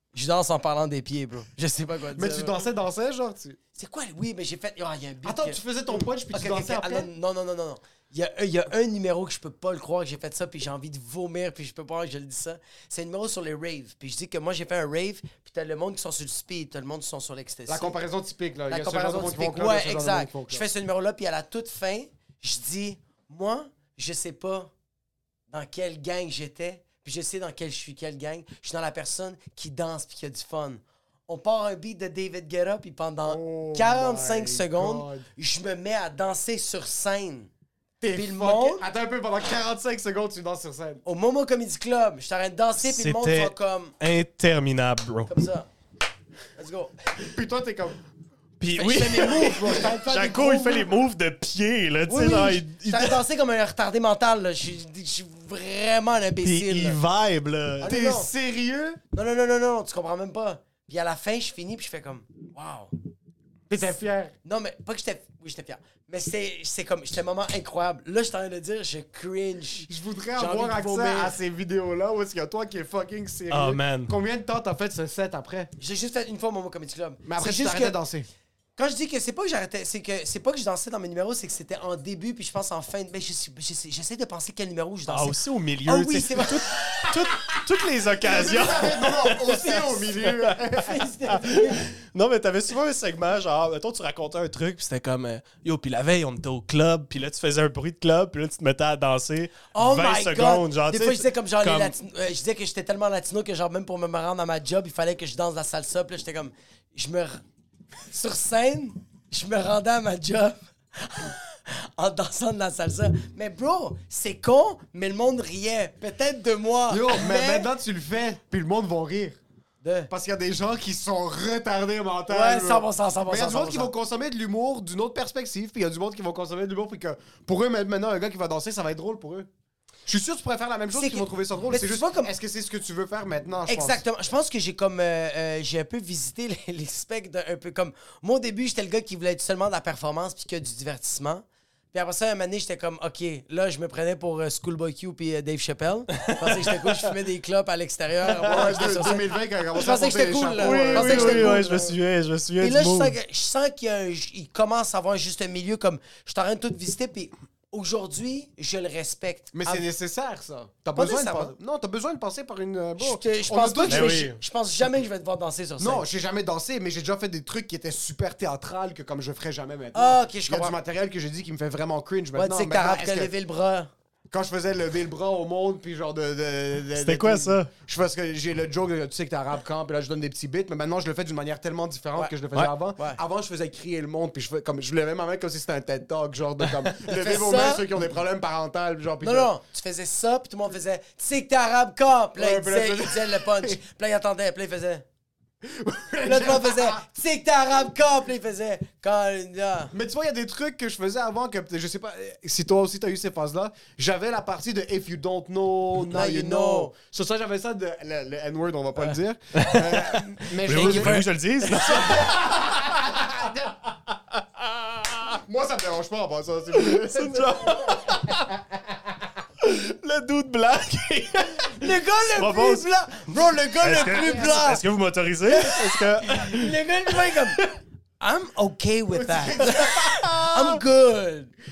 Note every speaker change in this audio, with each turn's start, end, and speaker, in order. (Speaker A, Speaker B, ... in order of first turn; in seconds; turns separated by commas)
Speaker A: 0.1-2.5, Speaker B: 2.1-3.6, Speaker A: 3.8-18.0, Speaker B: 5.2-7.1, Speaker B: 17.7-20.6, Speaker A: 18.7-24.7, Speaker A: 25.5-37.5, Speaker B: 33.3-35.3, Speaker B: 38.0-41.0, Speaker A: 38.1-38.8, Speaker A: 41.0-43.9, Speaker C: 42.8-45.3, Speaker A: 45.3-45.7, Speaker A: 46.6-46.9, Speaker B: 47.2-48.0, Speaker C: 48.6-53.2, Speaker A: 48.8-50.9, Speaker B: 49.2-50.6, Speaker A: 52.1-57.0, Speaker C: 56.4-57.9, Speaker B: 57.8-59.0, Speaker A: 57.8-58.3, Speaker A: 59.1-62.9, Speaker B: 63.7-64.3, Speaker A: 64.4-71.4, Speaker B: 69.8-75.7, Speaker C: 73.5-74.2, Speaker A: 75.8-78.0, Speaker B: 77.2-78.3, Speaker A: 78.8-87.1, Speaker C: 85.1-102.0, Speaker B: 88.2-91.0, Speaker A: 90.8-91.9, Speaker A: 99.7-107.4, Speaker A: 108.1-117.7, Speaker B: 116.9-119.4, Speaker A: 119.8-120.1, Speaker B: 120.1-129.5, Speaker A: 122.3-123.9, Speaker B: 130.1-134.0, Speaker A: 130.9-132.3, Speaker A: 133.7-151.8, Speaker C: 146.1-147.1, Speaker B: 148.3-151.9, Speaker C: 150.6-153.2, Speaker A: 152.6-159.8, Speaker B: 159.5-164.3, Speaker A: 160.9-161.5, Speaker A: 163.0-166.1, Speaker C: 163.9-164.4, Speaker B: 165.8-173.3, Speaker A: 169.9-170.8, Speaker A: 172.4-173.9, Speaker B: 174.3-189.5, Speaker C: 176.9-177.7, Speaker A: 187.1-187.9, Speaker A: 189.2-195.1, Speaker B: 192.4-193.8, Speaker B: 195.6-197.0, Speaker A: 196.2-199.9, Speaker B: 199.9-213.7, Speaker A: 206.1-206.9, Speaker C: 209.6-210.2, Speaker A: 210.7-211.3, Speaker C: 210.7-213.2, Speaker C: 214.6-215.4, Speaker B: 215.4-218.1, Speaker C: 216.8-218.6, Speaker C: 219.6-227.7, Speaker A: 221.8-224.8, Speaker B: 224.0-224.5, Speaker A: 226.3-227.6, Speaker A: 228.2-231.5, Speaker B: 229.1-229.8, Speaker C: 229.6-230.8